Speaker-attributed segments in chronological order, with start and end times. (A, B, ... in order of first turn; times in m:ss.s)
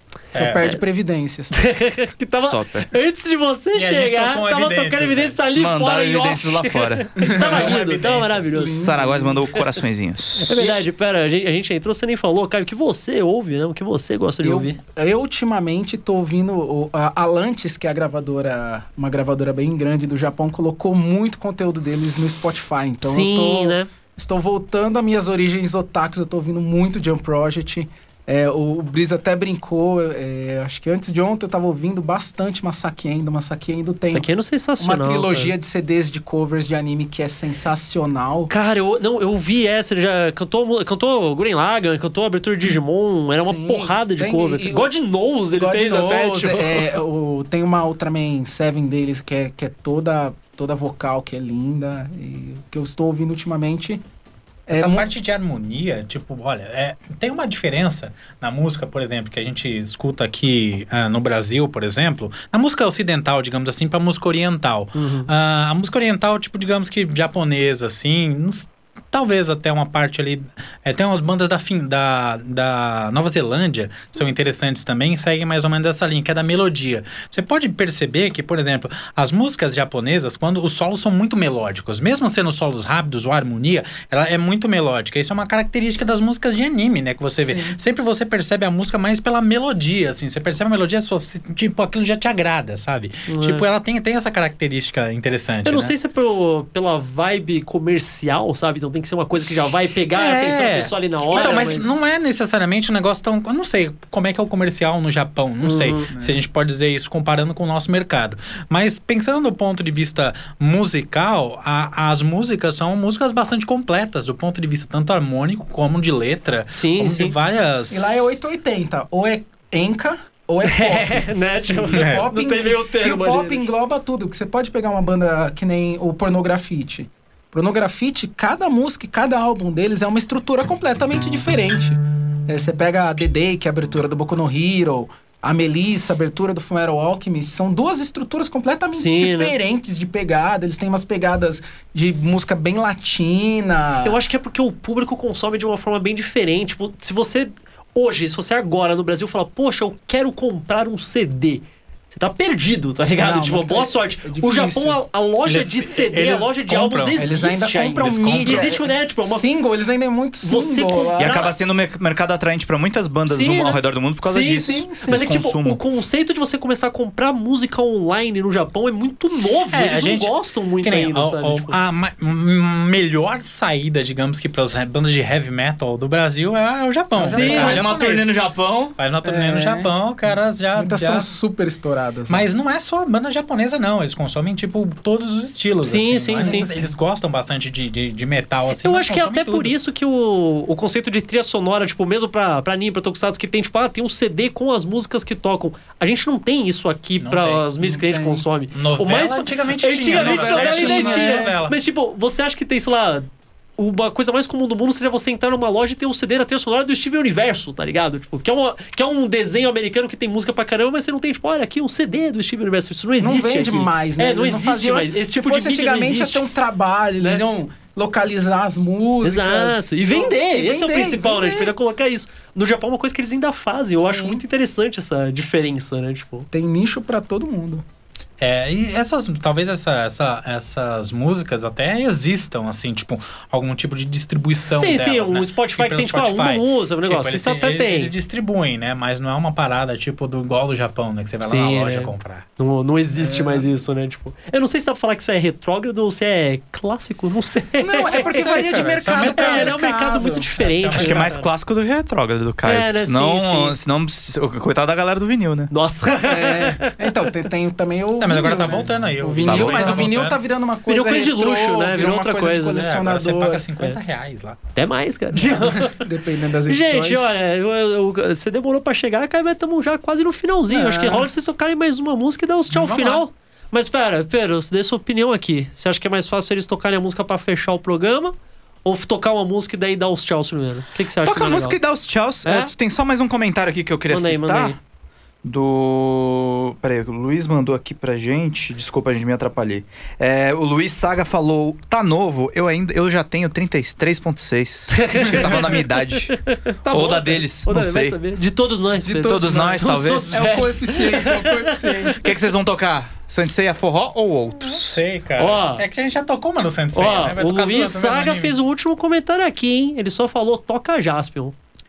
0:00.3-0:00.7 A
0:00.3-0:01.5 B
0:01.5-0:08.9 C
0:02.4-0:02.9 D
0:03.7-0:05.4 A
0:05.6-0:07.1 D
0:07.2-0:07.8 B
0:07.2-0:08.6 A
0:08.5-0:09.6 B
0:08.7-0:10.6 D
0:10.4-0:14.8 C
0:10.5-0:10.8 B
0:14.4-0:34.3 B
0:23.0-0:23.9 C
0:34.1-0:35.5 C
0:34.8-0:38.5 B
0:38.5-0:47.0 C
0:43.4-0:44.9 B
0:45.6-0:54.0 B
0:54.7-0:55.1 B
0:54.7-1:36.0 A
1:04.9-1:05.3 C
1:27.4-1:27.8 B
1:33.3-1:33.6 C
1:35.6-1:42.0 C
1:40.1-1:58.4 A
1:41.3-1:42.0 B
1:45.6-1:46.1 C
1:46.1-1:46.4 B
1:56.7-1:57.4 C
1:57.9-2:24.2 B
2:00.6-2:03.6 C
2:01.9-2:02.3 A
2:19.0-2:19.5 C
2:24.0-2:39.5 C
2:33.2-2:35.0 B
2:35.5-2:38.8 A
2:37.2-2:41.4 B
2:40.4-2:41.5 C
2:41.2-2:45.8 D
2:43.3-2:51.8 C
2:44.9-2:45.2 B
2:49.7-2:58.4 A
2:57.2-2:57.8 B
2:57.2-2:59.0 D
2:57.2-2:57.9 C
2:59.0-3:01.3 A
2:59.2-3:02.5 B
3:02.3-3:09.8 A
3:05.8-3:06.7 C
3:06.3-3:06.8 B
3:08.7-3:36.5 C
3:17.2-3:17.7 A
3:17.8-3:18.4 B
3:18.7-3:21.8 A
3:20.1-3:21.6 B
3:33.2-3:41.8 B
3:39.2-3:46.5 C
3:44.0-3:44.4 B
3:46.5-3:47.8 B
3:48.4-4:02.5 A
3:54.8-3:58.1 C
4:01.4-4:08.3 C
4:03.2-4:03.7 B
4:07.8-4:10.9 B
4:08.3-4:09.8 A
4:09.4-4:11.5 C
4:10.6-4:11.4 A
4:10.9-4:15.7 D
4:12.6-4:13.8 C
4:15.7-4:16.9 C
4:16.2-4:23.7 B
4:18.2-4:20.4 A
4:19.4-4:20.2 D
4:20.9-4:22.9 C
4:22.7-4:24.6 A
4:24.8-4:26.1 C
4:25.6-4:27.3 B
4:26.7-4:41.8 C
4:30.7-4:31.3 B
4:32.7-4:33.2 A
4:41.2-4:44.8 D
4:42.4-4:42.7 C
4:44.1-4:44.8 C
4:45.4-4:56.4 D
4:55.0-5:02.2 C
4:56.9-4:58.2 D
4:59.0-5:02.2 B
4:59.2-5:00.5 D
5:02.2-5:05.0 D
5:04.8-5:08.6 A
5:05.4-5:05.8 C
5:06.9-5:11.6 C